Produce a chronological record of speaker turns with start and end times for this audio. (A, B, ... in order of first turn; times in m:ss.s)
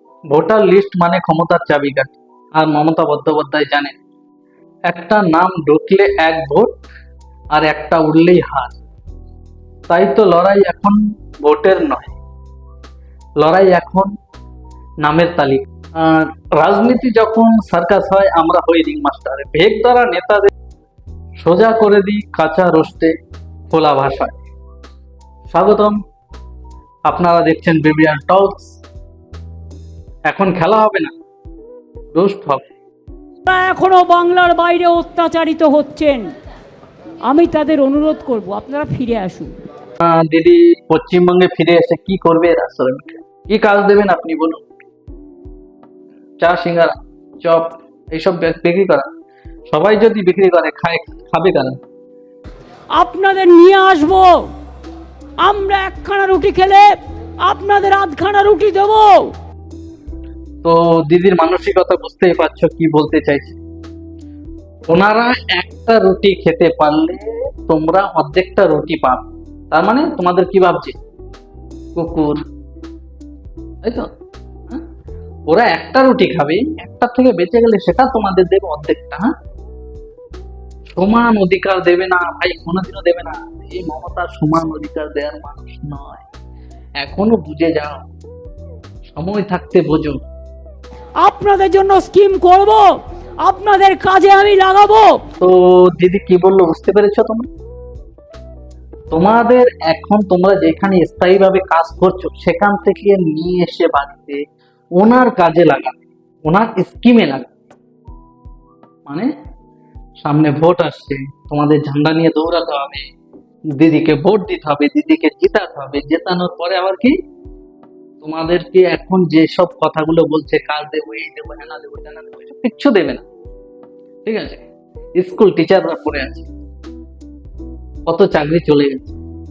0:00.3-0:04.0 A
0:04.9-0:06.8 A
0:07.5-0:08.8 A
0:09.9-0:12.2 A
0:13.4-0:14.1 A
0:15.0-0:20.5 A
0:21.4-0:23.1 A
0:23.7-0:24.4 A
0:25.5-0:26.0 A
0:27.1-0:28.8 A
0:30.3-0:31.1 A
0:32.1-0:32.6 A
0:33.4-0:36.3 B
0:37.2-0:39.5 B
0:40.0-0:44.7 A
0:46.4-0:49.1 A
0:49.7-0:51.8 A
0:52.9-0:54.5 B
0:55.4-0:56.9 B
0:57.4-0:59.3 B
1:00.6-1:03.6 A
1:04.9-1:11.0 A
1:11.9-1:12.4 A
1:13.8-1:14.1 A
1:15.5-1:19.3 A
1:20.9-1:26.3 A
1:27.0-1:28.1 A
1:29.1-1:30.2 A
1:31.2-1:32.9 B
1:33.4-1:35.2 B
1:35.4-1:37.5 A
1:39.1-1:44.4 A
1:45.0-1:47.5 A
1:50.2-1:53.1 A
1:53.7-1:57.2 A
1:58.2-2:03.2 A
2:04.2-2:06.5 A
2:08.1-2:09.2 A